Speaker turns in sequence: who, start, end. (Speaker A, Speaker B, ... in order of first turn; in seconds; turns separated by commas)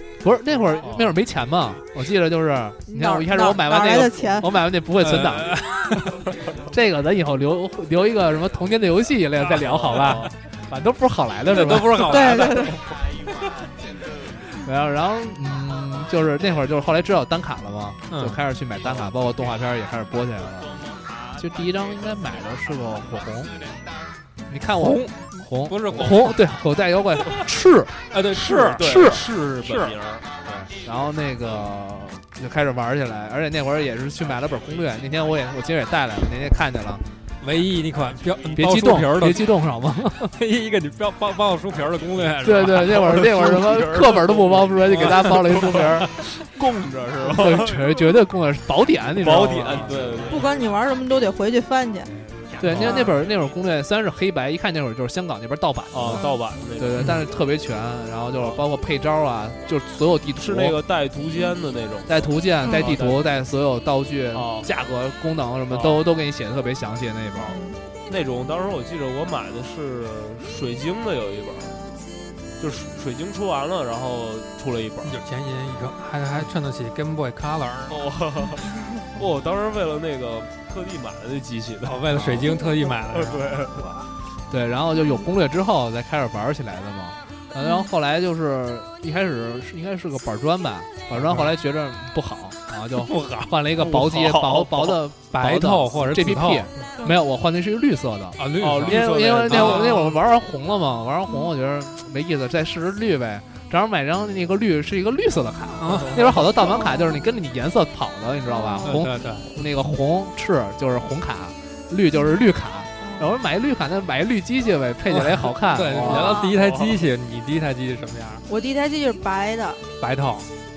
Speaker A: 0.2-5.7, Speaker B: 0.8-1.1, Speaker C: 2.9-4.5, Speaker D: 5.0-6.1, Speaker A: 6.6-12.8, Speaker B: 9.5-10.3, Speaker D: 11.5-12.7, Speaker C: 12.1-12.8, Speaker A: 14.4-23.5, Speaker D: 18.1-18.4, Speaker A: 24.5-29.2, Speaker D: 24.8-26.4, Speaker D: 28.1-29.9, Speaker B: 28.3-30.7, Speaker A: 30.7-37.0, Speaker D: 37.4-39.5, Speaker A: 38.5-40.3, Speaker D: 40.2-43.3, Speaker A: 42.4-46.1, Speaker B: 42.6-48.0, Speaker D: 45.0-45.3, Speaker A: 47.2-50.0, Speaker B: 49.1-50.5, Speaker D: 49.5-50.0, Speaker C: 50.3-52.1, Speaker A: 52.6-60.8, Speaker C: 52.7-53.1, Speaker B: 55.9-57.2, Speaker B: 60.4-63.2, Speaker A: 62.1-67.6, Speaker C: 62.6-62.9, Speaker B: 64.3-64.7, Speaker B: 65.7-66.0, Speaker C: 67.4-67.8, Speaker B: 68.1-71.8, Speaker B: 72.6-75.2, Speaker D: 75.0-78.0, Speaker B: 77.9-82.3, Speaker D: 81.8-84.1, Speaker A: 82.1-82.6, Speaker C: 82.6-82.9, Speaker B: 83.1-83.9, Speaker A: 84.5-116.4, Speaker C: 87.6-87.9, Speaker D: 91.1-91.5, Speaker D: 93.0-94.0, Speaker B: 93.9-95.0, Speaker D: 95.3-96.7, Speaker D: 98.4-100.2, Speaker B: 98.6-100.0, Speaker D: 105.8-106.5, Speaker C: 106.7-107.1, Speaker C: 108.5-109.0, Speaker D: 108.8-109.5, Speaker C: 113.0-113.4, Speaker D: 115.1-118.4, Speaker C: 116.0-116.5, Speaker B: 116.5-117.0, Speaker C: 118.5-119.8, Speaker D: 120.0-120.5